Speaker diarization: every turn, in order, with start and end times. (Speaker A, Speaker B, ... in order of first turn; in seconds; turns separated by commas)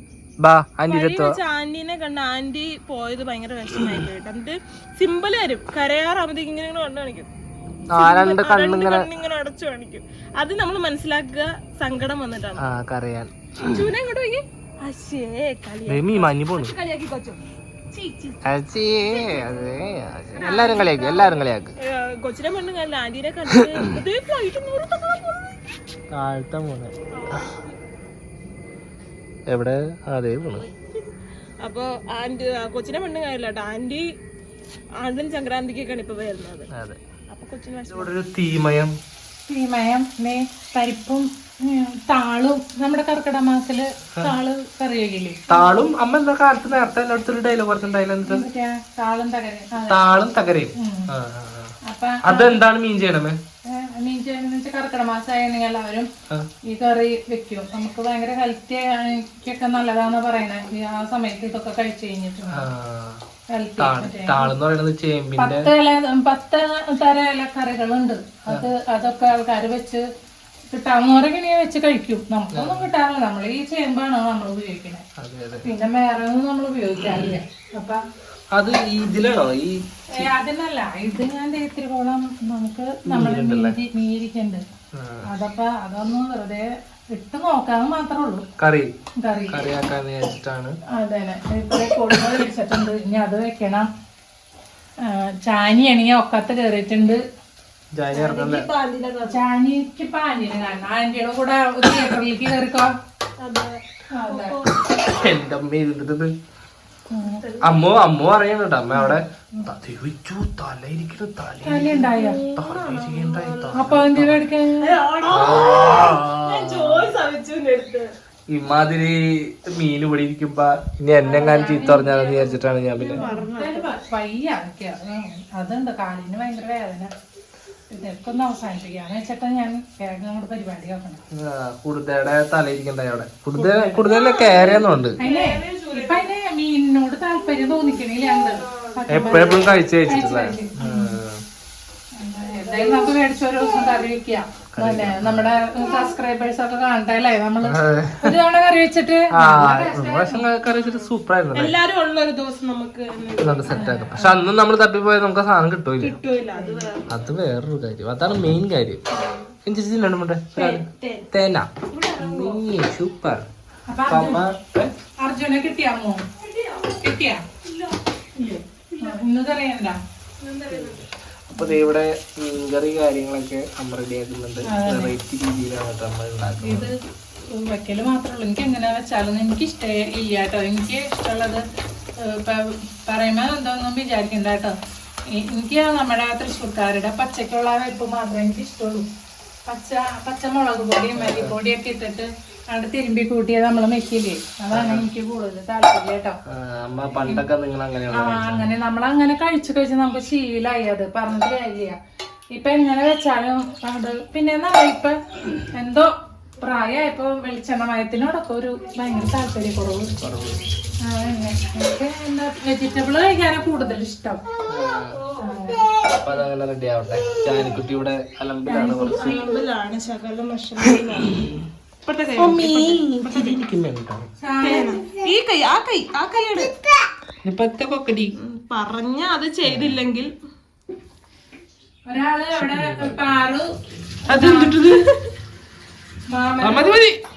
Speaker A: 0.4-1.4, Speaker B: 0.9-7.3, Speaker A: 7.9-9.1, Speaker B: 8.0-12.6, Speaker A: 12.6-13.9, Speaker B: 13.7-18.4, Speaker A: 15.9-16.8, Speaker A: 18.4-21.7, Speaker B: 19.0-19.7, Speaker B: 20.4-25.5, Speaker A: 26.1-27.5, Speaker B: 27.1-27.8, Speaker A: 29.5-30.7, Speaker B: 31.6-34.1, Speaker B: 35.0-36.7, Speaker A: 36.7-37.0, Speaker B: 37.3-38.1, Speaker A: 37.9-38.9, Speaker C: 39.5-45.7, Speaker A: 45.5-48.5, Speaker C: 48.2-50.1, Speaker A: 49.9-53.4, Speaker C: 50.8-51.1, Speaker C: 51.9-52.6, Speaker C: 53.7-56.1, Speaker C: 56.7-62.7, Speaker A: 62.5-63.2, Speaker C: 63.5-64.5, Speaker A: 63.8-65.7, Speaker C: 65.4-70.0, Speaker C: 70.7-75.0, Speaker A: 72.5-72.9, Speaker A: 75.2-75.7, Speaker C: 75.6-78.0, Speaker A: 78.5-80.3, Speaker C: 80.2-84.6, Speaker A: 83.1-83.8, Speaker A: 85.0-85.3, Speaker C: 85.3-88.5, Speaker A: 88.6-88.9, Speaker C: 89.2-89.7, Speaker A: 89.5-90.8, Speaker C: 91.0-93.9, Speaker C: 95.0-97.2, Speaker A: 97.9-98.7, Speaker B: 98.1-99.4, Speaker C: 99.2-102.9, Speaker B: 103.4-104.8, Speaker C: 104.1-104.6, Speaker A: 104.9-106.3, Speaker C: 107.1-107.4, Speaker B: 107.4-107.8, Speaker A: 107.6-114.5, Speaker C: 108.9-109.7, Speaker C: 111.6-112.4, Speaker B: 112.2-113.9, Speaker C: 113.7-115.0, Speaker B: 114.8-118.1, Speaker A: 115.3-117.1, Speaker A: 118.5-123.3, Speaker C: 121.2-122.6, Speaker B: 123.0-123.9, Speaker C: 123.1-127.1, Speaker C: 127.9-131.2, Speaker A: 131.3-135.2, Speaker C: 133.6-134.2, Speaker B: 134.1-136.3, Speaker C: 135.2-141.2, Speaker B: 138.2-139.8, Speaker A: 139.1-141.4, Speaker C: 142.2-150.5, Speaker A: 144.8-145.5, Speaker A: 147.6-148.4, Speaker A: 149.3-151.8, Speaker B: 150.7-153.8, Speaker A: 153.4-156.2, Speaker C: 153.7-154.5, Speaker B: 156.0-157.1, Speaker A: 157.1-159.0, Speaker B: 159.1-159.5, Speaker A: 159.7-163.5, Speaker B: 160.6-161.3, Speaker B: 161.9-162.7, Speaker C: 163.9-164.4, Speaker A: 164.1-164.9, Speaker C: 165.2-166.2, Speaker B: 166.5-166.8, Speaker C: 166.9-167.5, Speaker B: 167.7-169.2, Speaker C: 169.0-170.0, Speaker B: 170.4-171.1, Speaker A: 170.7-176.9, Speaker C: 171.5-171.9, Speaker C: 174.7-175.1, Speaker C: 176.6-176.9, Speaker C: 177.5-181.6, Speaker C: 182.2-184.7, Speaker C: 185.4-189.1, Speaker C: 189.7-196.4, Speaker A: 191.2-191.6, Speaker A: 194.7-195.1, Speaker A: 196.5-198.7, Speaker C: 198.1-202.0, Speaker C: 202.5-206.1, Speaker C: 206.6-210.2, Speaker A: 210.2-210.6, Speaker C: 211.1-214.4, Speaker A: 214.7-215.2, Speaker B: 215.1-216.4, Speaker C: 215.4-215.9, Speaker A: 216.2-219.5, Speaker C: 218.7-219.4, Speaker B: 219.1-223.6, Speaker A: 222.4-224.3, Speaker C: 224.4-225.0, Speaker B: 224.6-226.7, Speaker A: 227.4-228.3, Speaker B: 228.4-230.3, Speaker A: 229.6-230.0, Speaker C: 232.1-233.7, Speaker A: 232.6-233.4, Speaker C: 234.3-234.8, Speaker A: 234.3-235.0, Speaker B: 234.4-235.3, Speaker C: 236.3-237.0, Speaker A: 236.6-237.2